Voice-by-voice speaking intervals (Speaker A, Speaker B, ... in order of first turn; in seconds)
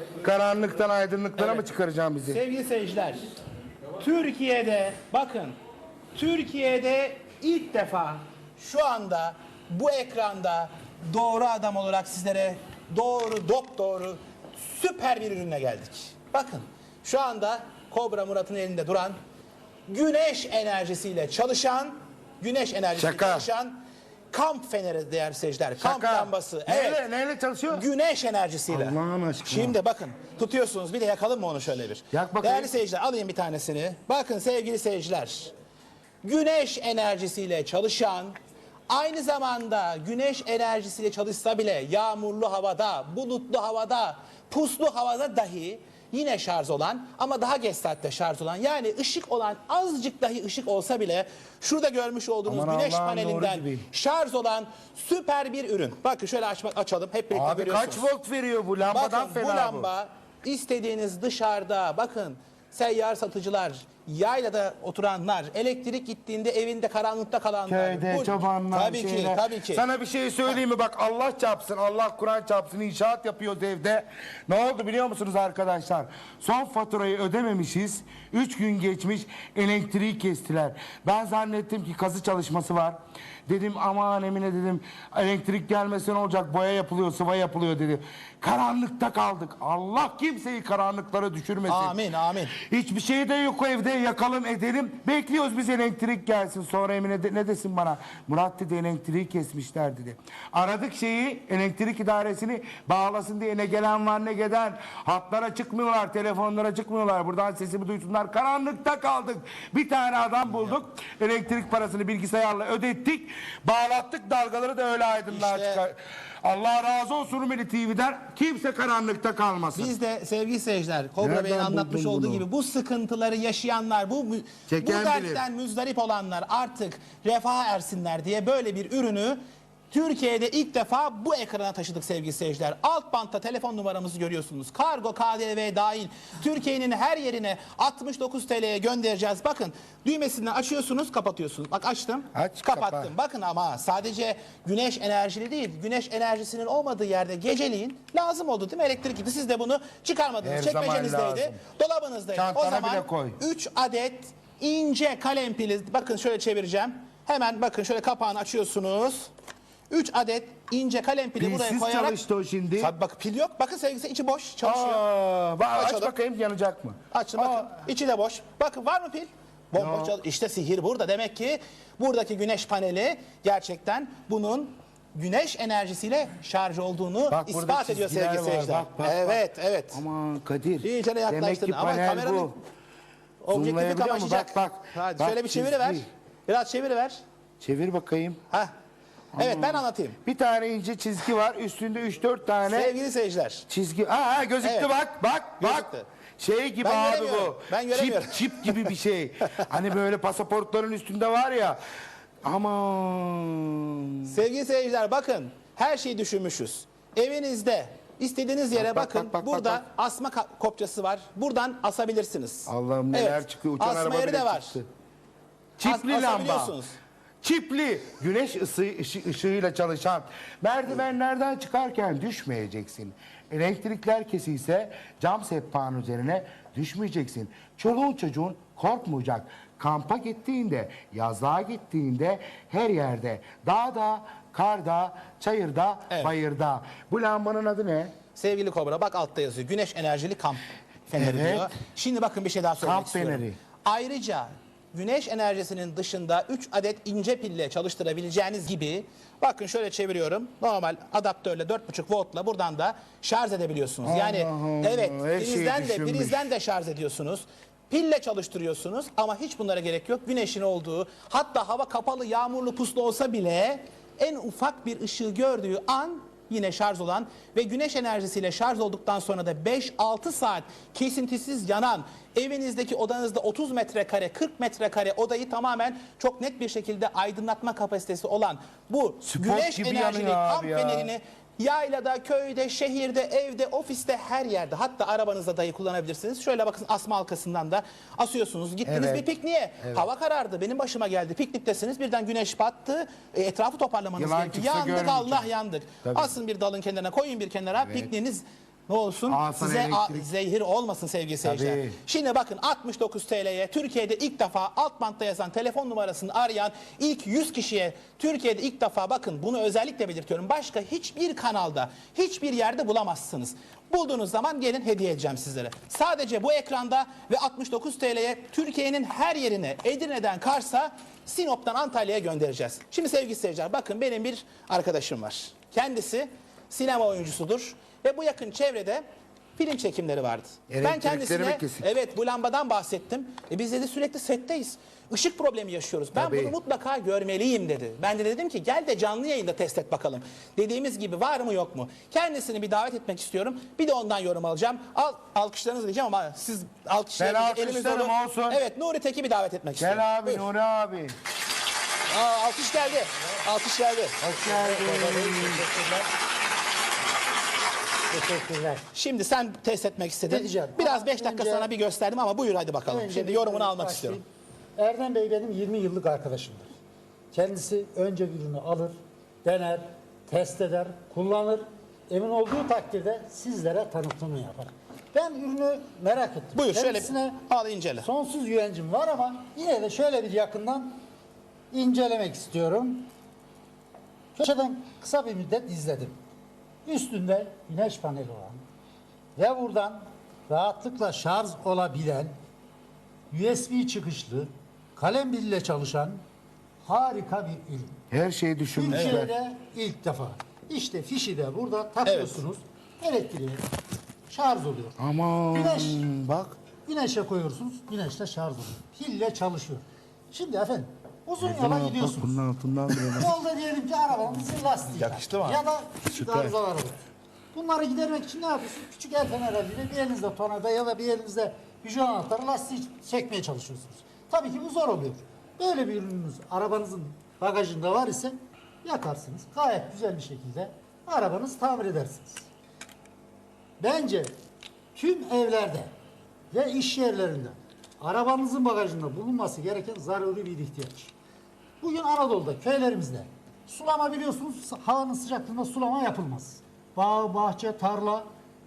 Speaker A: 0.2-2.4, 23.0-23.5, 25.8-27.8, 28.7-29.8, 32.1-32.7, 52.5-53.9, 57.3-59.9, 67.7-92.0, 92.5-119.9, 121.2-122.5, 124.7-125.4, 142.3-143.1, 150.4-151.6, 152.3-153.4, 161.4-162.9, 164.6-167.7, 169.7-170.2, 177.3-182.6, 183.5-186.1, 187.6-188.4, 189.3-192.9, 193.7-201.8, 202.4-204.4, 208.7-209.8, 212.7-214.9, 215.8-216.8, 217.4-238.1, 241.1-241.7, 242.8-243.6, 254.0-256.5, 279.2-281.1, 288.9-289.2, 289.8-290.1, 294.1-295.5, 296.0-296.3, 297.8-298.1, 299.3-300.3, 301.4-302.0, 330.7-331.9, 336.1-336.5, 347.2-348.6, 349.8-351.1, 354.2-355.6, 398.1-399.3, 405.0-406.6, 411.4-413.3, 416.1-416.5
Speaker B: 1.4-1.7, 2.2-3.3, 4.0-5.5, 6.1-19.1, 19.9-23.8, 24.3-27.0, 27.7-35.5, 36.2-38.3, 38.9-58.1, 58.8-69.9, 91.7-92.5, 115.3-115.8, 119.7-129.4, 129.9-159.3, 159.9-162.2, 162.8-165.0, 165.7-166.1, 167.1-180.0, 180.8-182.6, 183.4-187.2, 189.3-190.2, 192.6-193.7, 194.6-194.9, 195.6-196.1, 196.8-198.9, 204.3-214.8, 215.8-217.0, 236.1-236.3, 238.3-329.0, 329.6-350.5, 352.1-354.2, 358.9-364.2, 376.5-378.1, 398.9-399.2, 402.0-402.4, 414.9-415.6
Speaker C: 354.3-356.1, 358.1-358.8, 360.3-361.7, 362.9-364.2, 364.8-366.7, 367.3-377.4, 378.0-380.9, 381.7-383.1, 384.3-386.2, 386.8-388.6, 389.4-392.3, 393.3-396.2, 396.8-398.0, 398.7-403.6, 404.3-405.0, 405.5-406.1, 406.8-412.4, 413.0-417.0, 417.5-432.5, 433.8-434.3, 434.9-435.9, 436.5-441.1, 441.8-448.2